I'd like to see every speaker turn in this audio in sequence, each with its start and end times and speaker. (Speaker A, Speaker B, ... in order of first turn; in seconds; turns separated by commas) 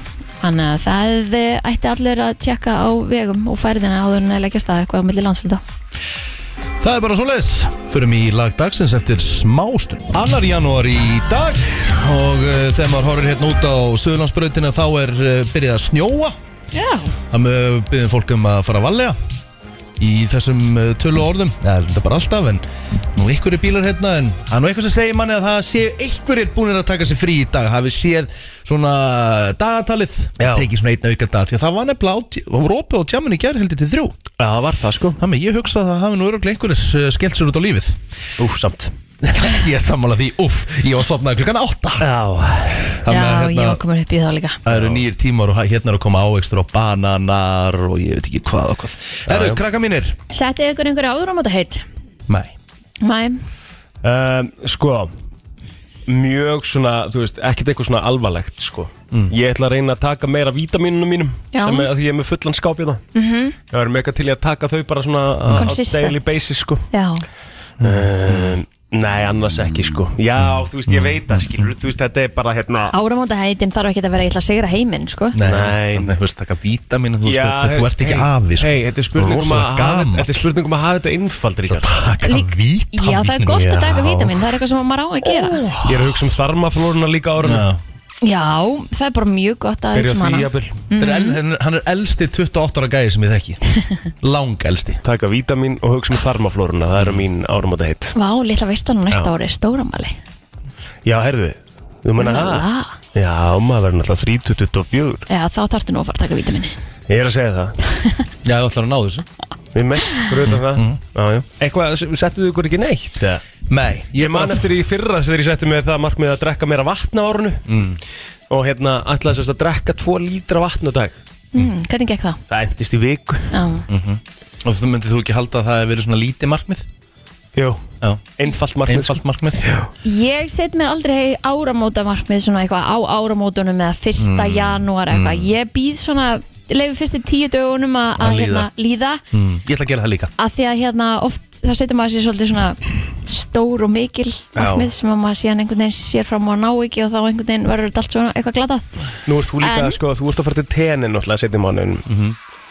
Speaker A: 0.4-5.6, Speaker B: 6.8-16.4, Speaker A: 16.7-17.1, Speaker B: 17.3-19.2, Speaker B: 20.0-34.2, Speaker C: 30.4-30.7, Speaker C: 34.4-35.2, Speaker B: 35.2-38.0, Speaker C: 38.4-38.9, Speaker B: 39.2-42.1, Speaker C: 42.0-43.0, Speaker B: 43.0-43.8, Speaker A: 43.1-44.6, Speaker B: 44.6-50.1, Speaker C: 44.7-45.0, Speaker C: 49.3-49.6, Speaker A: 50.3-51.8, Speaker B: 52.3-52.5, Speaker A: 53.0-53.4, Speaker C: 54.0-55.1, Speaker C: 56.1-63.0, Speaker A: 61.5-61.9, Speaker A: 63.1-63.5, Speaker C: 63.7-66.9, Speaker A: 65.6-66.3, Speaker A: 66.9-67.2, Speaker B: 67.8-68.6, Speaker C: 67.8-72.9, Speaker B: 70.4-71.6, Speaker A: 72.9-75.4, Speaker B: 75.3-80.5, Speaker C: 75.4-76.2, Speaker C: 77.2-82.1, Speaker B: 81.6-83.6, Speaker A: 82.2-85.6, Speaker C: 83.5-84.4, Speaker B: 85.4-86.2, Speaker C: 85.7-87.7, Speaker B: 87.4-87.8, Speaker A: 88.2-91.4, Speaker C: 89.9-90.8, Speaker B: 91.0-93.6, Speaker B: 94.2-95.0, Speaker C: 95.0-98.1, Speaker A: 98.1-100.1, Speaker C: 101.0-105.2, Speaker A: 102.2-102.9, Speaker A: 105.3-106.8, Speaker C: 107.1-107.8, Speaker A: 107.9-108.2, Speaker B: 108.4-109.2, Speaker C: 109.7-113.4, Speaker B: 110.4-111.0, Speaker B: 113.7-114.6, Speaker C: 114.1-117.7, Speaker B: 117.7-118.0, Speaker C: 118.5-121.2, Speaker A: 121.5-122.4, Speaker C: 122.5-123.6, Speaker A: 123.5-123.8, Speaker B: 123.9-126.9, Speaker C: 127.5-127.8, Speaker B: 128.0-128.3, Speaker C: 128.4-129.9, Speaker B: 128.8-129.7, Speaker A: 130.0-139.2, Speaker B: 134.2-135.5, Speaker B: 138.2-138.7, Speaker B: 139.3-140.3, Speaker A: 140.4-148.9, Speaker C: 144.6-144.9, Speaker C: 149.2-152.1, Speaker A: 149.6-150.0, Speaker B: 152.1-152.3